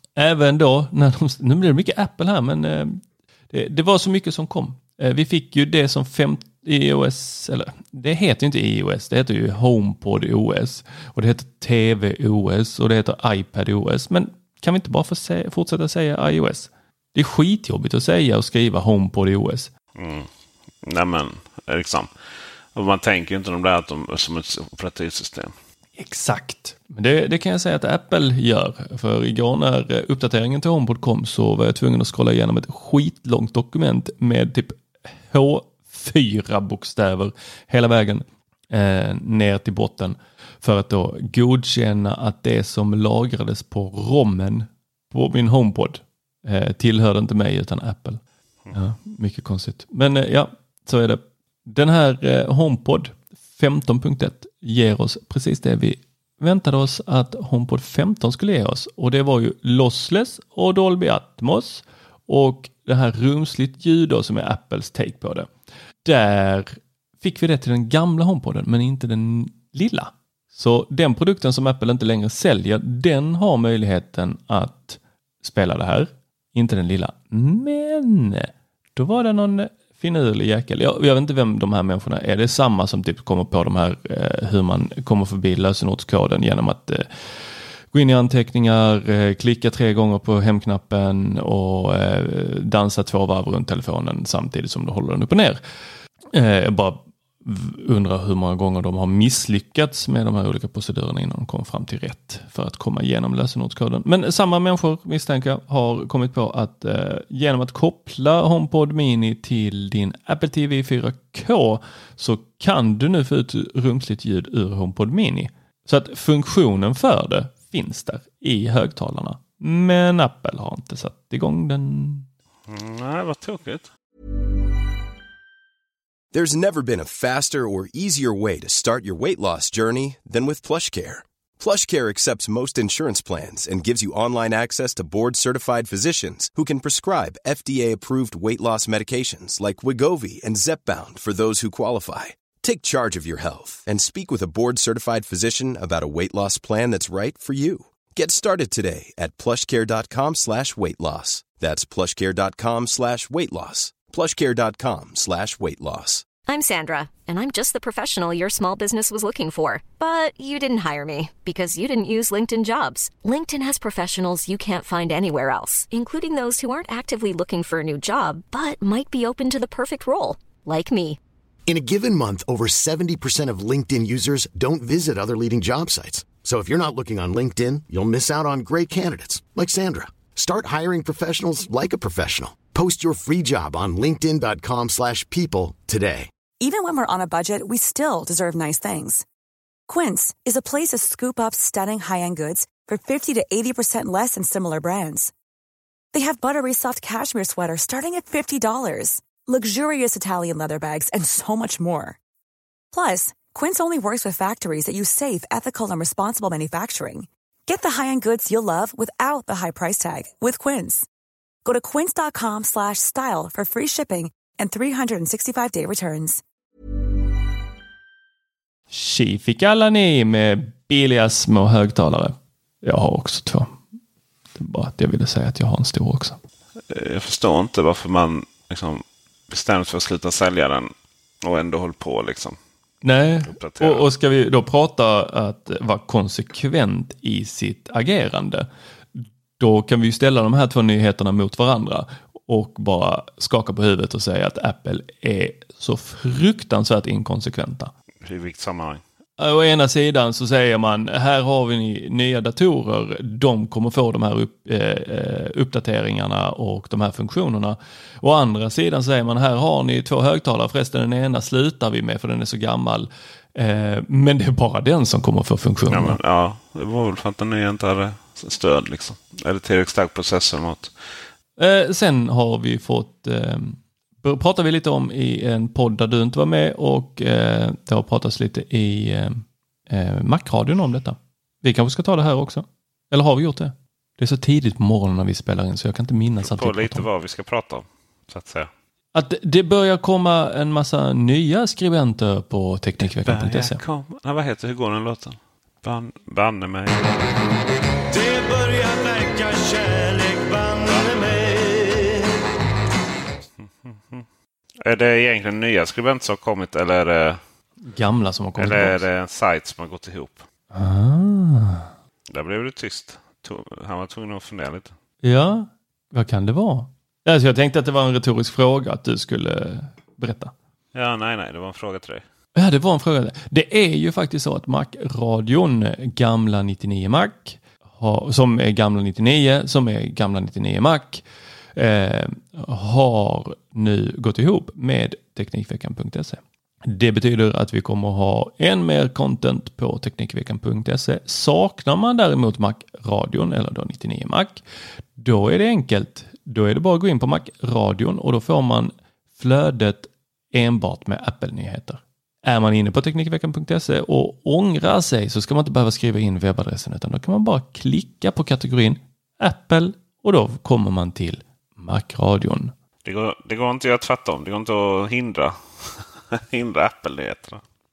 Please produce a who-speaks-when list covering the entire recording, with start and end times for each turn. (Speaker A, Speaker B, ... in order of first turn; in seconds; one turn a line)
Speaker A: 0.1-3.0
Speaker A: 3.5-19.7
Speaker B: 19.9-20.3
Speaker B: 20.8-22.1
Speaker B: 22.7-25.5
Speaker A: 26.0-48.2
Speaker A: 48.7-65.5
Speaker A: 66.0-87.1
Speaker A: 87.9-95.6
Speaker A: 96.3-122.3
Speaker B: 122.7-123.9
Speaker C: 126.3-156.2
Speaker D: 156.5-171.2
Speaker E: 171.7-186.3
Speaker F: 186.6-189.2
Speaker F: 189.9-195.3
Speaker F: 196.1-202.2
Speaker F: 202.9-211.1
Speaker F: 211.6-216.4
Speaker A: 218.9-223.8
Speaker A: 224.5-226.4
Speaker B: 226.9-230.9
Speaker B: 231.4-232.6
Speaker A: 233.0-247.9
Speaker B: 233.5-234.1
Speaker B: 248.2-249.0
Speaker A: 249.4-266.2
Speaker B: 265.9-270.9
Speaker A: 271.6-287.1
Speaker B: 286.4-288.7
Speaker A: 289.1-293.8
Speaker B: 293.0-297.1
Speaker G: 298.1-302.4
Speaker B: 300.9-301.3
Speaker B: 303.6-304.2
Speaker B: 304.8-307.4
Speaker A: 307.9-309.0
Speaker B: 308.6-310.4
Speaker A: 310.7-311.9
Speaker B: 312.3-314.9
Speaker A: 315.2-320.5
Speaker B: 320.9-322.2
Speaker A: 322.5-344.6
Speaker A: 345.2-362.7
Speaker B: 363.0-367.6